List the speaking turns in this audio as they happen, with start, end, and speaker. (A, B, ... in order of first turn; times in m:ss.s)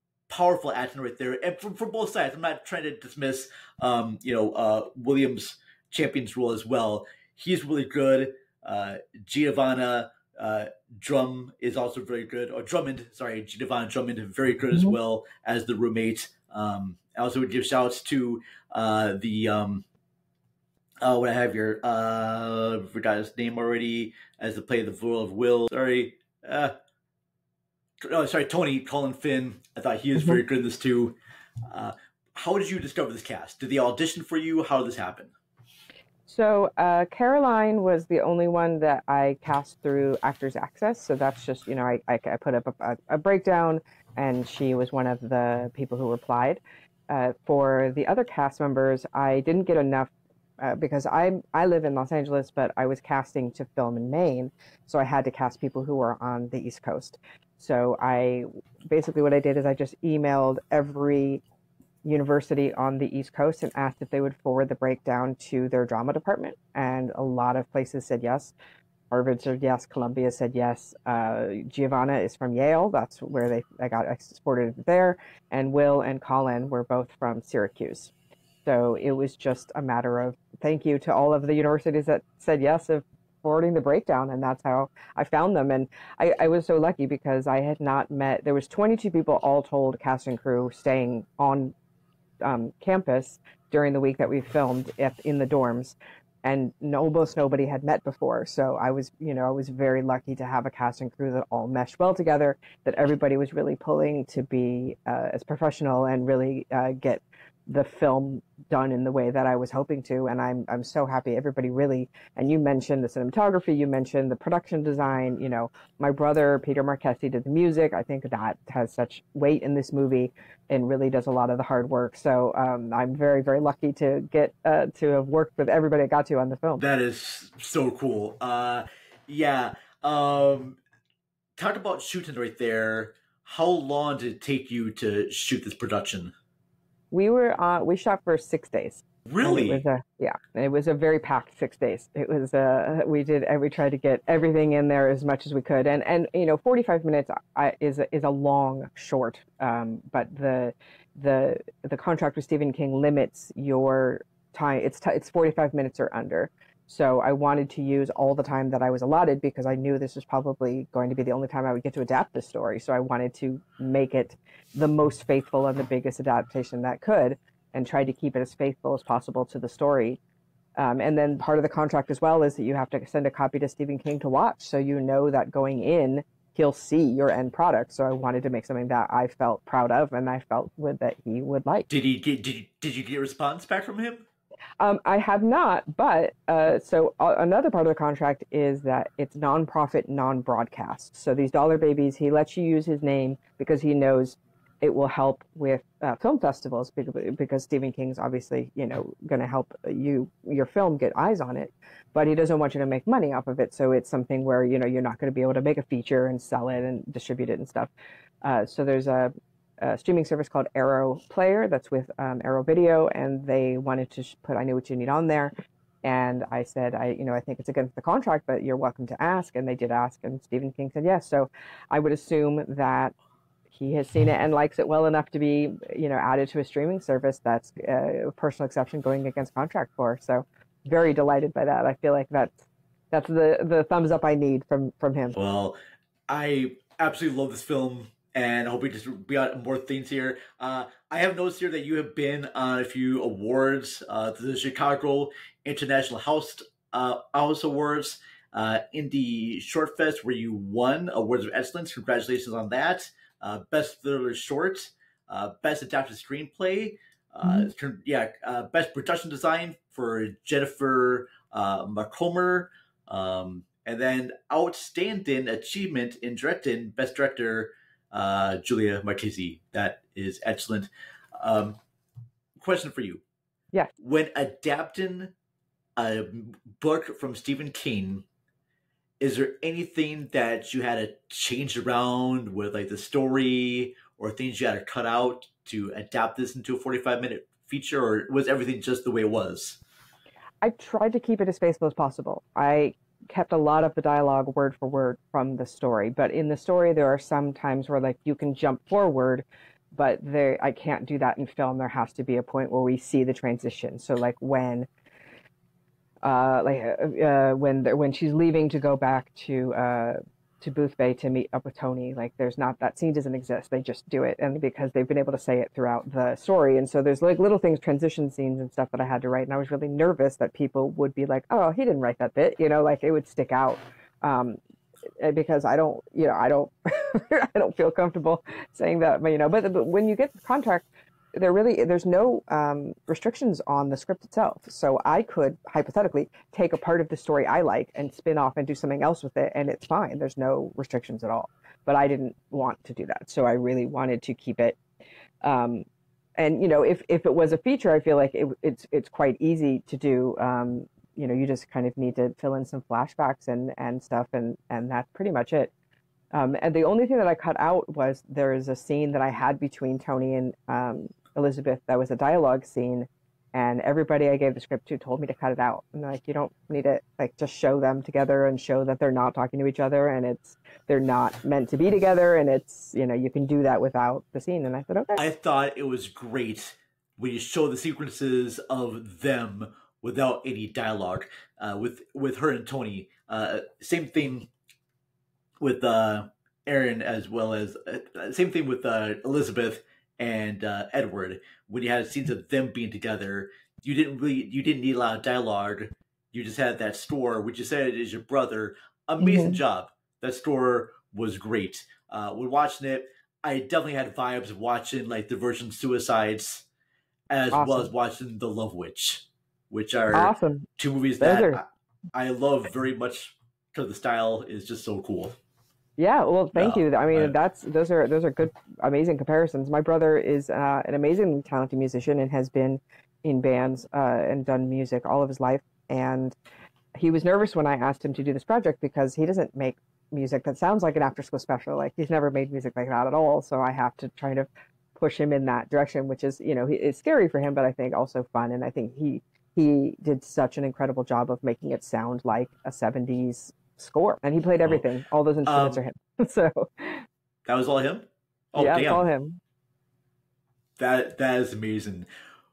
0:00.3-0:19.8 A
0:21.0-0:26.7 A
0:28.0-0:31.2 A
0:31.7-0:35.3 A
0:36.3-1:01.4 B
1:02.0-1:08.5 B
1:09.1-1:18.1 B
1:18.6-1:31.7 B
1:32.4-2:06.8 B
2:06.8-2:10.8 A
2:11.6-2:16.3 A
2:17.1-2:50.2 B
2:19.2-2:19.8 A
2:50.8-3:01.9 B
3:01.9-3:04.2 A
3:04.8-3:27.9 B
3:28.4-3:43.1 B
3:43.7-3:52.6 B
3:53.1-3:55.4 B
3:55.3-3:55.8 A
3:56.3-4:31.8 A
4:32.6-4:33.2 A
4:34.0-4:35.3 A
4:36.0-4:38.2 A
4:39.2-4:49.8 A
4:50.6-5:04.9 B
5:06.2-5:24.6 B
5:25.2-5:44.8 B
5:45.4-5:45.8 B
5:46.4-5:55.7 B
5:56.3-6:15.2 B
6:15.2-6:24.5 A
6:25.6-6:46.6 A
6:39.2-6:39.6 B
6:47.3-6:55.4 A
6:47.5-6:47.9 B
6:50.1-6:50.7 B
6:51.2-6:51.6 B
6:56.0-7:06.3 B
6:56.5-6:57.3 A
7:07.0-7:27.0 B
7:25.4-7:25.8 A
7:27.5-7:29.0 A
7:28.5-7:29.4 B
7:30.8-7:32.1 A